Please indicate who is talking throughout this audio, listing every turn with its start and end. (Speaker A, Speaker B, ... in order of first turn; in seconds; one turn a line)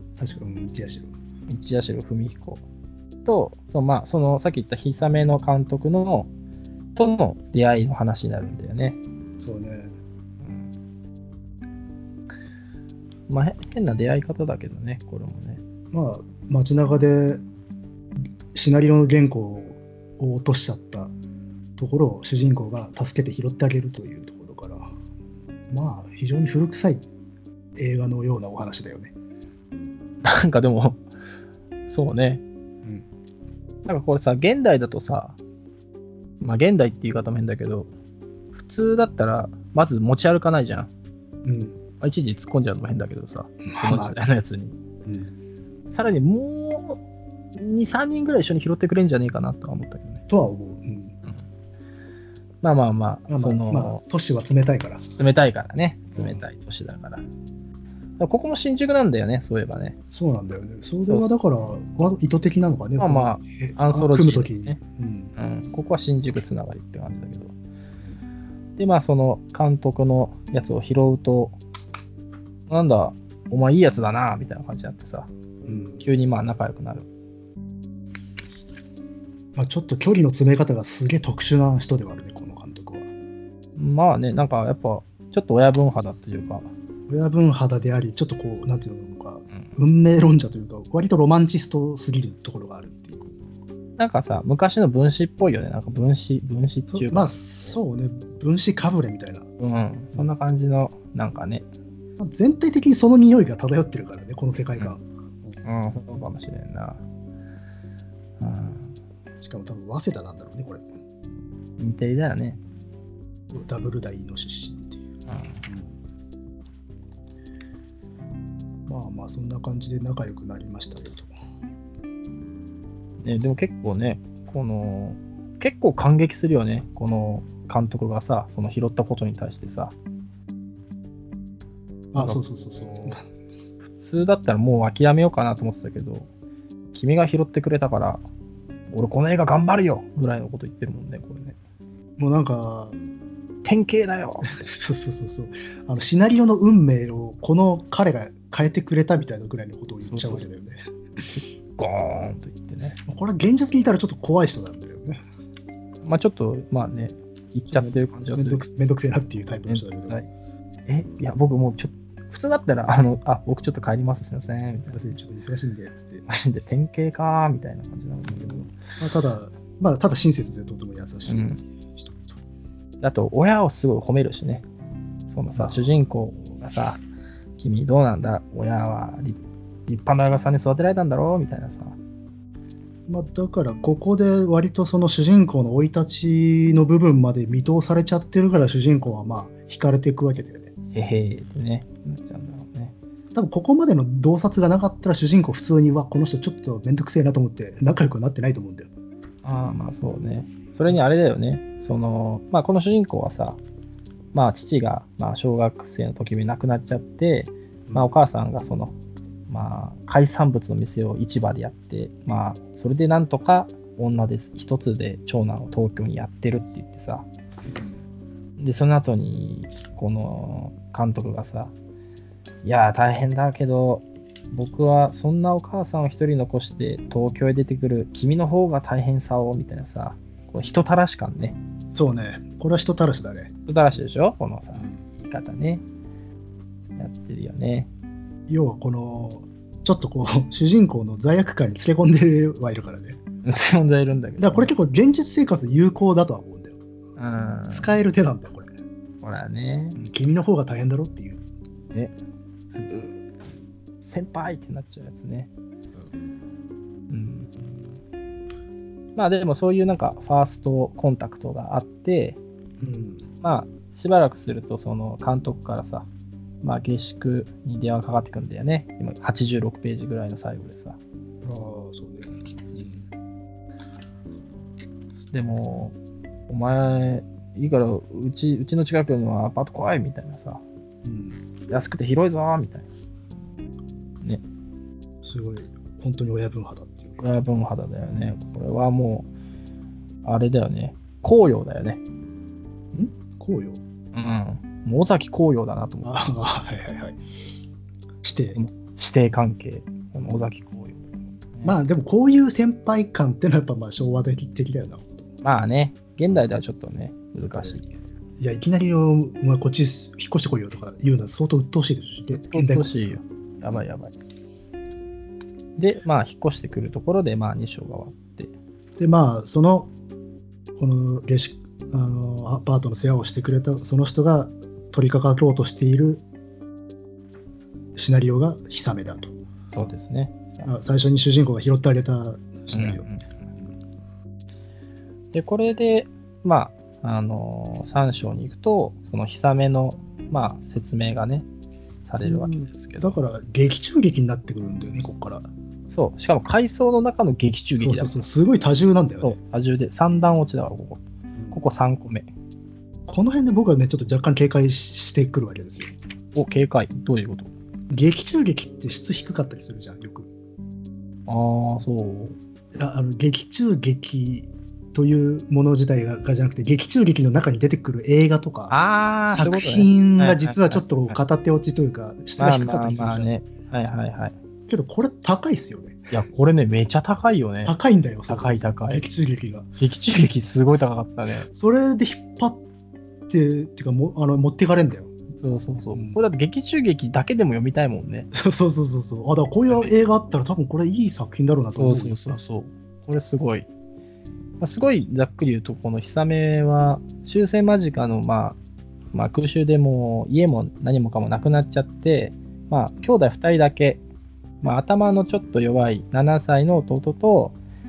Speaker A: 0.2-1.1
Speaker B: 1.5-2.6
Speaker B: 3.2-6.3
Speaker B: 6.9-9.0
Speaker A: 9.4-9.9
Speaker B: 13.3-15.6
Speaker A: 15.9-17.4
Speaker A: 18.5-21.1
Speaker A: 21.8-24.9
Speaker A: 25.7-27.0
Speaker A: 27.8-29.1
Speaker B: 30.2-31.1
Speaker B: 31.9-32.4
Speaker B: 33.8-35.4
Speaker B: 36.4-37.9
Speaker B: 38.5-40.9
Speaker A: 41.4-41.8
Speaker B: 42.0-44.8
Speaker A: 43.6-44.2
Speaker A: 45.0-45.3
Speaker B: 45.9-47.0
Speaker B: 47.5-50.2
Speaker A: 50.3-51.1
Speaker B: 52.6-54.0
Speaker A: 53.3-55.0
Speaker B: 55.2-57.2
Speaker A: 56.1-56.4
Speaker B: 58.2-60.0
Speaker A: 60.1-65.3
Speaker B: 63.0-64.8
Speaker B: 65.3-67.5
Speaker B: 68.8-71.6
Speaker B: 72.7-75.3
Speaker A: 75.7-76.0
Speaker B: 76.0-77.1
Speaker A: 79.5-83.1
Speaker B: 83.8-86.7
Speaker A: 87.1-93.3
Speaker B: 94.0-97.8
Speaker A: 96.9-99.5
Speaker B: 99.6-101.6
Speaker A: 102.2-105.5
Speaker B: 105.6-107.0
Speaker B: 108.4-108.9
Speaker A: 109.4-110.9
Speaker B: 111.8-112.6
Speaker A: 113.5-115.0
Speaker B: 115.3-115.7
Speaker A: 115.7-116.0
Speaker A: 118.9-121.3
Speaker B: 123.2-129.9
Speaker A: 132.1-133.2
Speaker B: 132.2-133.2
Speaker B: 134.0-136.3
Speaker B: 136.9-138.2
Speaker B: 138.9-141.6
Speaker A: 142.2-143.0
Speaker B: 143.6-144.6
Speaker A: 144.5-150.8
Speaker B: 150.1-150.4
Speaker B: 151.3-153.0
Speaker A: 153.1-155.2
Speaker B: 156.0-158.6
Speaker A: 157.7-160.1
Speaker B: 159.7-160.3
Speaker B: 160.9-165.1
Speaker A: 164.9-166.2
Speaker B: 166.3-168.9
Speaker A: 168.3-172.2
Speaker B: 171.3-171.6
Speaker B: 173.0-174.6
Speaker B: 175.3-177.0
Speaker A: 175.5-176.0
Speaker B: 177.6-182.0
Speaker A: 183.1-190.7
Speaker B: 190.9-192.9
Speaker A: 193.3-198.9
Speaker B: 199.4-203.6
Speaker B: 204.3-208.9
Speaker B: 209.5-217.3
Speaker A: 217.7-218.0
Speaker B: 218.6-221.7
Speaker B: 222.6-231.6
Speaker A: 231.9-233.5
Speaker B: 233.7-235.8
Speaker B: 237.0-237.9
Speaker A: 238.5-243.2
Speaker B: 243.4-244.7
Speaker A: 244.4-246.8
Speaker B: 247.2-247.9
Speaker A: 247.7-248.7
Speaker B: 249.2-250.0
Speaker A: 250.0-251.4
Speaker B: 252.7-253.2
Speaker B: 254.0-255.5
Speaker B: 257.1-257.5
Speaker B: 259.1-262.4
Speaker A: 262.8-263.2
Speaker B: 263.4-266.1
Speaker B: 266.6-271.0
Speaker A: 271.4-273.1
Speaker B: 275.3-275.9
Speaker B: 276.5-280.6
Speaker A: 281.0-281.4
Speaker B: 281.7-282.9
Speaker A: 285.2-287.2
Speaker B: 287.2-289.3
Speaker B: 290.2-292.0
Speaker A: 292.9-293.8
Speaker B: 294.1-296.1
Speaker A: 296.0-297.2
Speaker A: 298.2-298.6
Speaker B: 298.5-301.8
Speaker A: 300.1-300.5
Speaker A: 301.6-305.3
Speaker B: 305.4-308.0
Speaker A: 307.5-307.8
Speaker A: 308.4-313.1
Speaker B: 312.4-314.1
Speaker B: 315.8-318.5
Speaker A: 319.0-319.9
Speaker A: 320.8-326.2
Speaker A: 327.9-329.3
Speaker B: 329.7-330.7
Speaker A: 330.6-333.1
Speaker B: 332.7-333.5
Speaker B: 335.3-341.4
Speaker B: 342.1-343.2
Speaker A: 342.2-345.5
Speaker B: 345.9-348.2
Speaker A: 347.8-349.4
Speaker B: 349.2-352.3
Speaker A: 351.3-351.6
Speaker A: 353.1-355.9
Speaker B: 356.3-357.5
Speaker A: 357.9-360.3
Speaker B: 361.3-362.4
Speaker A: 362.7-368.8
Speaker B: 368.7-371.2
Speaker A: 369.3-373.3
Speaker B: 372.4-374.3
Speaker A: 374.7-376.1
Speaker B: 376.1-377.7
Speaker A: 377.6-379.7
Speaker B: 378.3-379.0
Speaker B: 379.8-381.5
Speaker A: 381.5-382.6
Speaker A: 383.3-385.1
Speaker B: 385.4-388.3
Speaker A: 385.9-386.2
Speaker A: 388.3-392.4
Speaker B: 391.7-393.7
Speaker B: 394.6-398.6
Speaker B: 399.1-404.0
Speaker B: 404.6-407.6